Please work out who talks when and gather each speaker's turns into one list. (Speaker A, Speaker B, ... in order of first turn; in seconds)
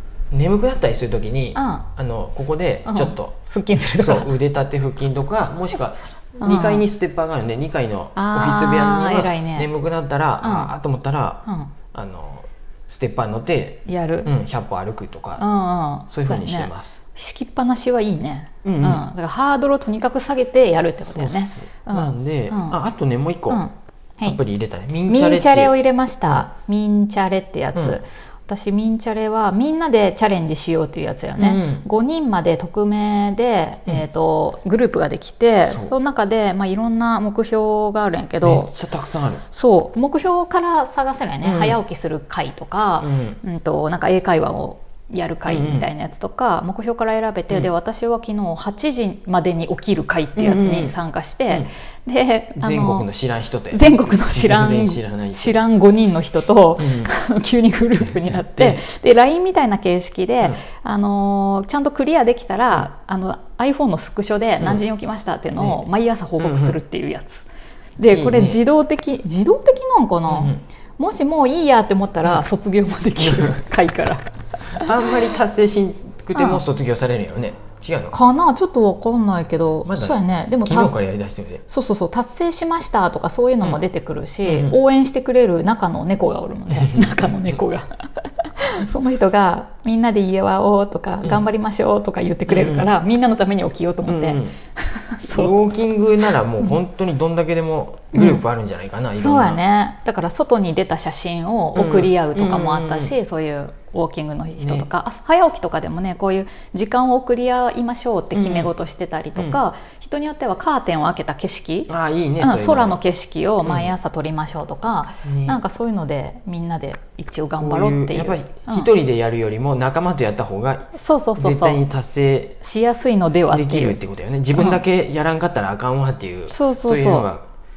Speaker A: 0.3-3.4, 3.9-15.5, 16.1-17.0, 18.6-19.1, 21.0-23.6, 24.2-26.5, 27.7-28.0, 31.4-31.9, 35.6-35.9, 38.4-39.4, 41.4-41.8, 43.0-43.4, 45.5-45.9, 50.4-51.0, 52.6-55.6, 56.8-57.1, 58.3-58.8, 64.6-64.8, 65.6-65.9, 66.4-66.8, 68.1-68.6, 70.3-70.6, 73.2-73.6, 74.8-78.2, 79.8-81.6, 84.4-84.8, 86.7-87.6, 92.5-92.9, 94.0-94.6, 95.3-99.6, 101.7-103.2, 104.6-104.9, 108.3-108.7, 109.3-109.6, 111.9-113.0, 113.6-113.9, 115.2-115.6, 117.6-122.6, 123.3-127.4
Speaker B: 1.6-1.9, 2.9-4.3, 6.4-6.9, 8.2-9.7, 10.4-10.7, 11.5-11.7, 13.9-14.3, 15.4-22.8, 23.5-24.4, 25.1-38.7, 39.5-53.1, 53.7-67.5, 68.0-75.2, 76.3-76.6, 78.1-81.0, 81.7-95.6, 98.1-98.4, 99.2-118.9, 120.9-121.8, 122.6-124.0, 124.5-124.8, 126.5-127.3